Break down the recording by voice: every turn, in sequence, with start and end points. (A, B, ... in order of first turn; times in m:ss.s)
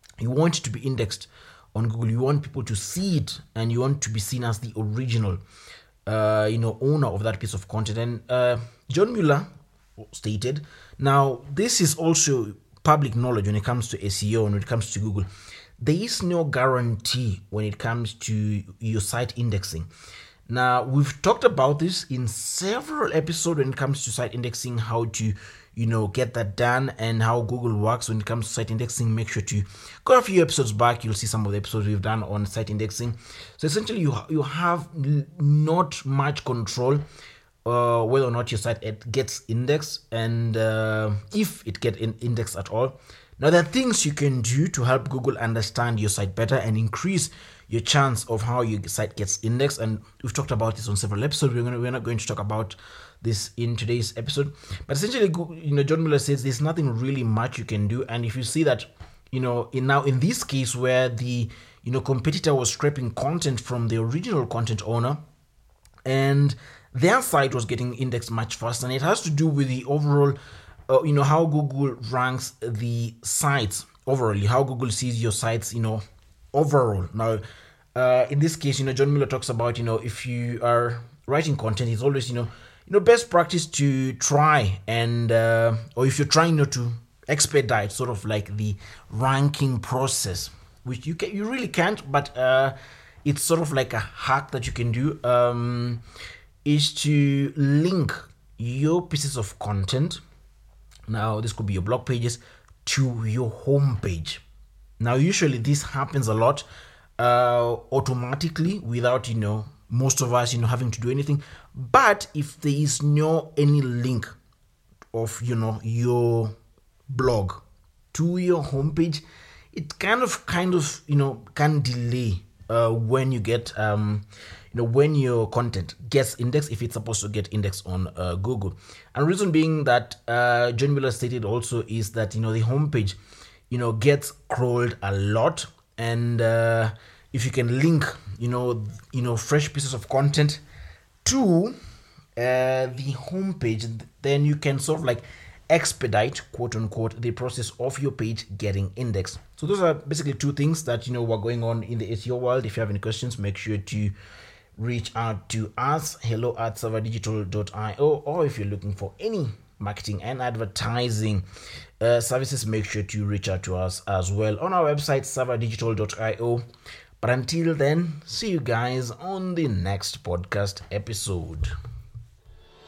0:00.2-0:05.4 A
0:06.0-0:09.5 A
0:10.0-0:15.3 A
0:15.8-0:19.9 A
0:20.5-0:37.0 A
0:37.6-1:05.2 A
1:06.0-1:10.4 A
1:10.9-1:17.4 A
1:17.9-1:36.0 A
1:36.6-1:40.2 A
1:41.1-1:44.4 A
1:45.0-1:46.6 A
1:47.2-1:54.3 A
1:55.1-1:56.5 A
1:57.1-2:13.2 A
2:13.7-2:20.6 A
2:21.2-2:21.7 A
2:22.4-2:34.1 A
2:34.8-2:41.4 A
2:42.0-2:46.6 A
2:47.2-2:51.7 A